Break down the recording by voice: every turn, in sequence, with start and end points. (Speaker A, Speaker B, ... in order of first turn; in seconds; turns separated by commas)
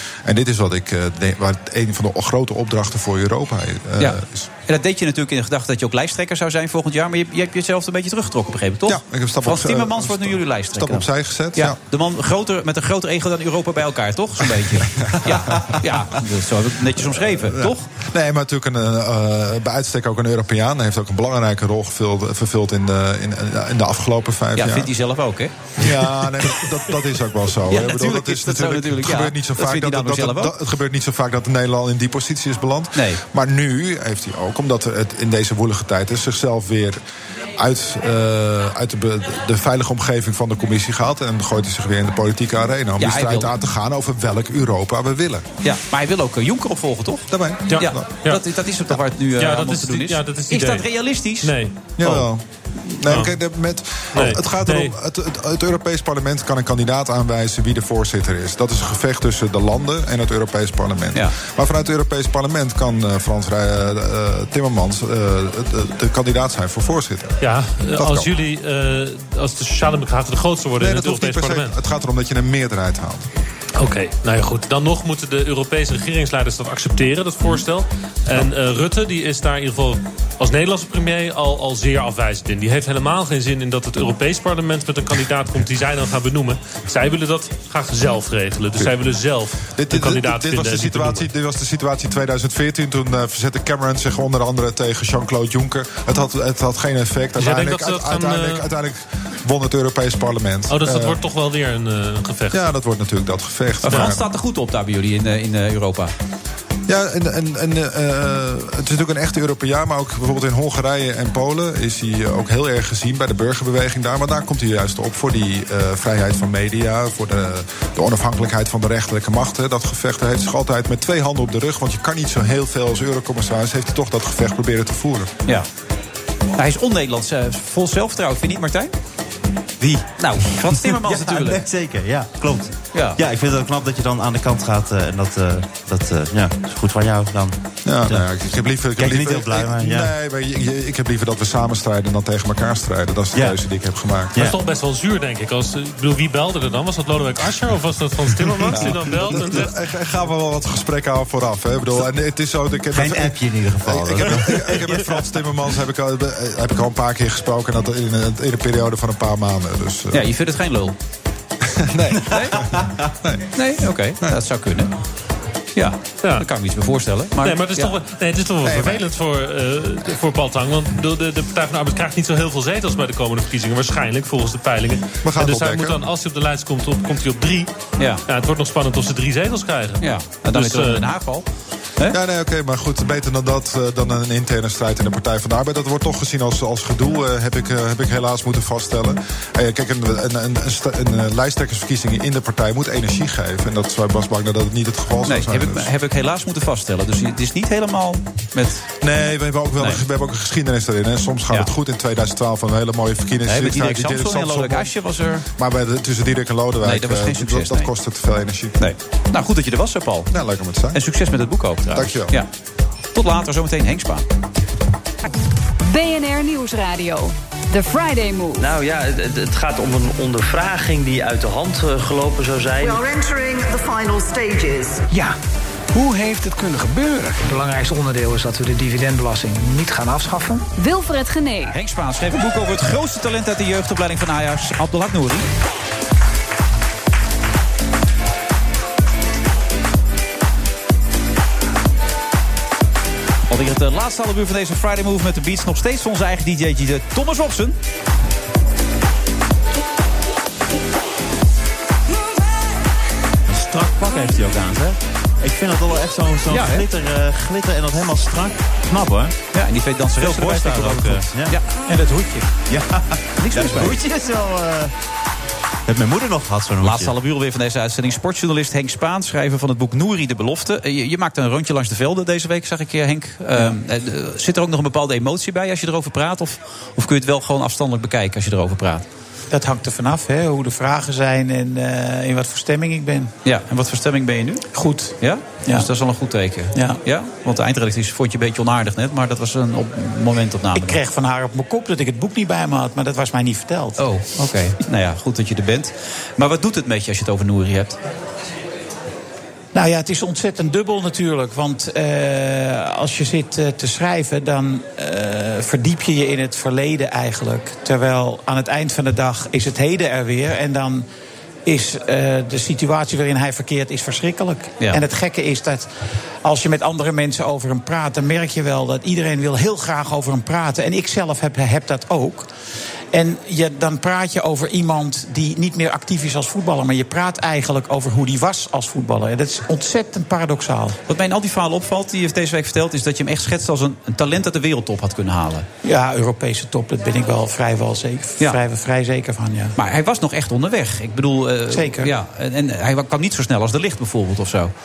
Speaker A: 0.2-4.5, Speaker B: 4.0-17.9, Speaker A: 8.8-11.8, Speaker A: 15.1-15.9, Speaker A: 17.0-24.9, Speaker B: 24.5-26.0, Speaker A: 25.8-37.0, Speaker B: 27.7-30.5, Speaker B: 32.9-33.2, Speaker A: 37.6-45.5, Speaker B: 43.0-43.5, Speaker B: 45.6-52.2, Speaker A: 47.3-48.1, Speaker C: 47.7-48.4, Speaker C: 49.4-50.9, Speaker C: 51.4-51.9, Speaker A: 52.0-67.3, Speaker C: 54.1-54.9, Speaker C: 67.4-71.7, Speaker A: 68.0-68.3, Speaker A: 70.8-73.2, Speaker C: 73.8-91.2, Speaker A: 89.7-101.2, Speaker C: 97.4-98.6, Speaker C: 100.7-102.6, Speaker A: 102.5-104.2, Speaker B: 103.8-106.1, Speaker A: 106.9-125.3, Speaker B: 126.6-128.9, Speaker D: 129.8-138.3, Speaker B: 130.2-131.7, Speaker B: 132.9-133.2, Speaker A: 137.8-144.5, Speaker D: 138.9-140.1, Speaker C: 144.4-149.7, Speaker A: 148.5-160.3, Speaker D: 152.9-155.1, Speaker B: 160.1-160.9, Speaker A: 161.8-163.5, Speaker B: 162.2-162.6, Speaker D: 162.5-162.9, Speaker B: 163.5-164.9, Speaker B: 165.8-167.9, Speaker C: 167.4-177.7, Speaker A: 168.6-169.1, Speaker A: 175.2-176.1, Speaker B: 178.0-178.2, Speaker C: 178.3-181.1, Speaker B: 180.0-181.4, Speaker A: 182.1-195.9, Speaker B: 195.2-198.8, Speaker A: 199.0-204.9, Speaker B: 199.8-200.0, Speaker B: 203.4-205.4, Speaker A: 205.6-208.8, Speaker B: 206.8-207.9, Speaker B: 208.8-210.3, Speaker A: 210.3-211.0, Speaker B: 210.9-212.5, Speaker A: 211.9-212.4, Speaker B: 213.1-214.2, Speaker E: 215.8-218.7, Speaker F: 218.6-223.0, Speaker G: 222.8-225.0, Speaker H: 225.1-225.4, Speaker H: 225.9-230.6, Speaker E: 230.8-231.7, Speaker B: 231.7-235.5, Speaker B: 243.5-247.8, Speaker D: 253.5-259.4, Speaker B: 256.5-256.9, Speaker B: 259.5-261.6, Speaker D: 260.2-261.6, Speaker I: 261.9-262.5, Speaker D: 262.7-264.9, Speaker B: 263.4-264.0, Speaker D: 265.9-267.1, Speaker B: 266.8-279.1, Speaker I: 279.5-283.3, Speaker B: 283.4-284.7, Speaker I: 284.7-285.1, Speaker B: 285.2-291.0, Speaker I: 286.7-287.0, Speaker I: 290.7-294.0, Speaker B: 294.0-298.0, Speaker I: 299.7-311.1, Speaker I: 311.6-315.9, Speaker I: 316.4-322.5, Speaker I: 323.1-331.0, Speaker B: 331.1-335.6, Speaker I: 335.8-339.7, Speaker B: 339.8-344.7, Speaker I: 341.7-342.1